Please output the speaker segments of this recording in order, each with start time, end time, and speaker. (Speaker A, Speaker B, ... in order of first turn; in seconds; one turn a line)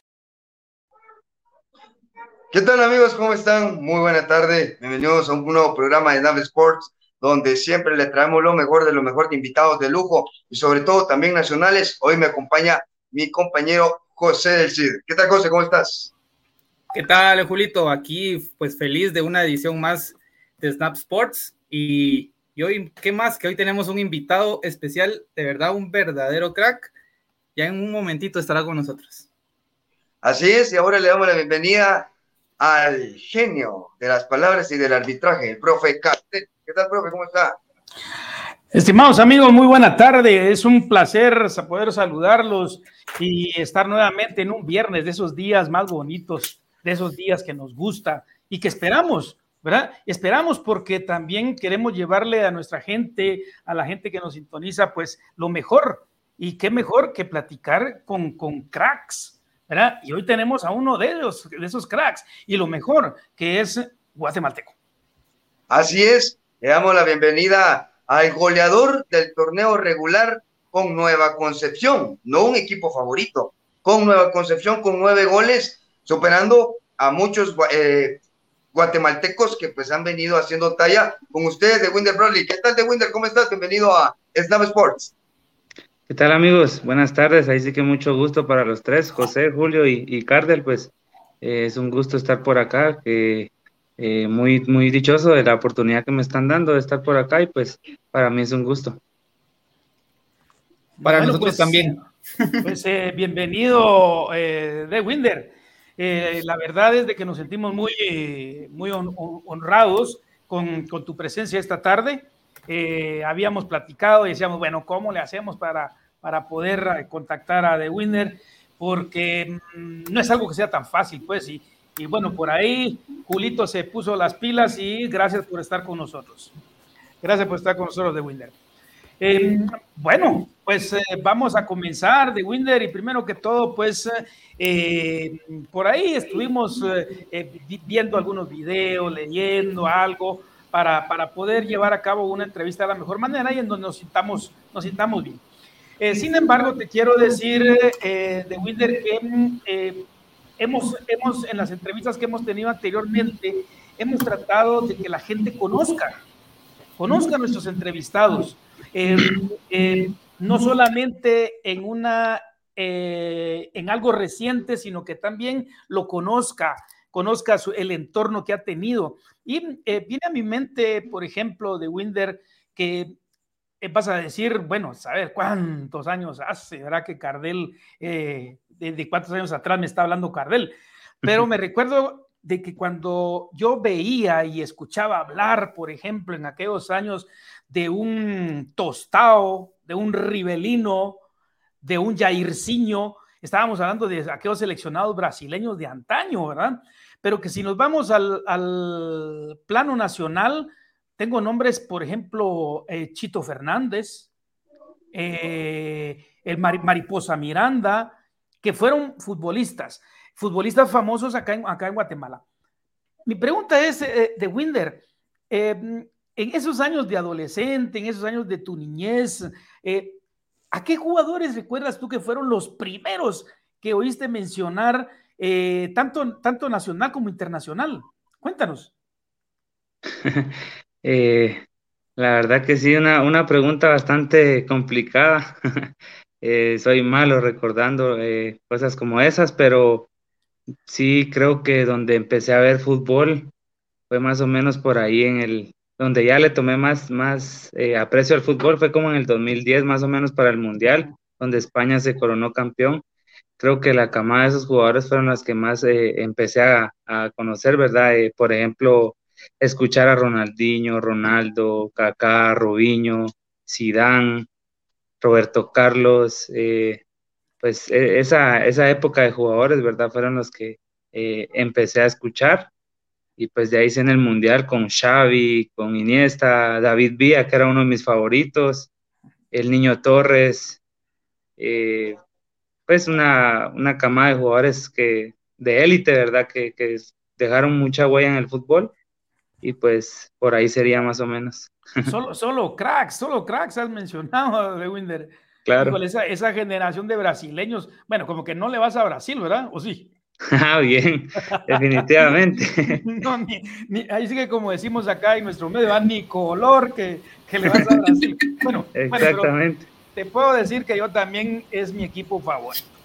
Speaker A: 2.5-16.1
Speaker B: 16.9-26.9
Speaker B: 27.6-29.3
Speaker A: 30.2-32.1
Speaker A: 32.6-37.6
Speaker C: 38.7-64.7
Speaker A: 65.7-78.2
Speaker A: 78.7-85.1
Speaker D: 86.1-99.0
Speaker C: 101.0-102.0
Speaker B: 101.0-102.7
Speaker C: 102.6-126.5
Speaker C: 127.2-128.5
Speaker C: 129.2-145.4
Speaker C: 146.0-150.1
Speaker C: 150.6-156.2
Speaker C: 157.0-173.2
Speaker C: 173.8-191.2
Speaker C: 191.8-204.3
Speaker C: 205.1-212.4
Speaker C: 213.2-220.2
Speaker C: 220.7-228.9
Speaker D: 230.2-231.6
Speaker D: 232.2-240.1
Speaker D: 240.8-243.5
Speaker D: 244.1-253.0
Speaker D: 253.6-264.5
Speaker D: 265.2-267.0
Speaker D: 267.6-272.7
Speaker D: 273.4-278.9
Speaker D: 279.5-280.8
Speaker D: 281.6-282.2
Speaker D: 282.9-288.9
Speaker D: 289.6-292.1
Speaker C: 292.0-300.1
Speaker D: 295.6-296.0
Speaker D: 300.5-303.0
Speaker C: 301.5-301.8
Speaker C: 302.8-309.5
Speaker D: 308.9-309.9
Speaker C: 310.1-312.8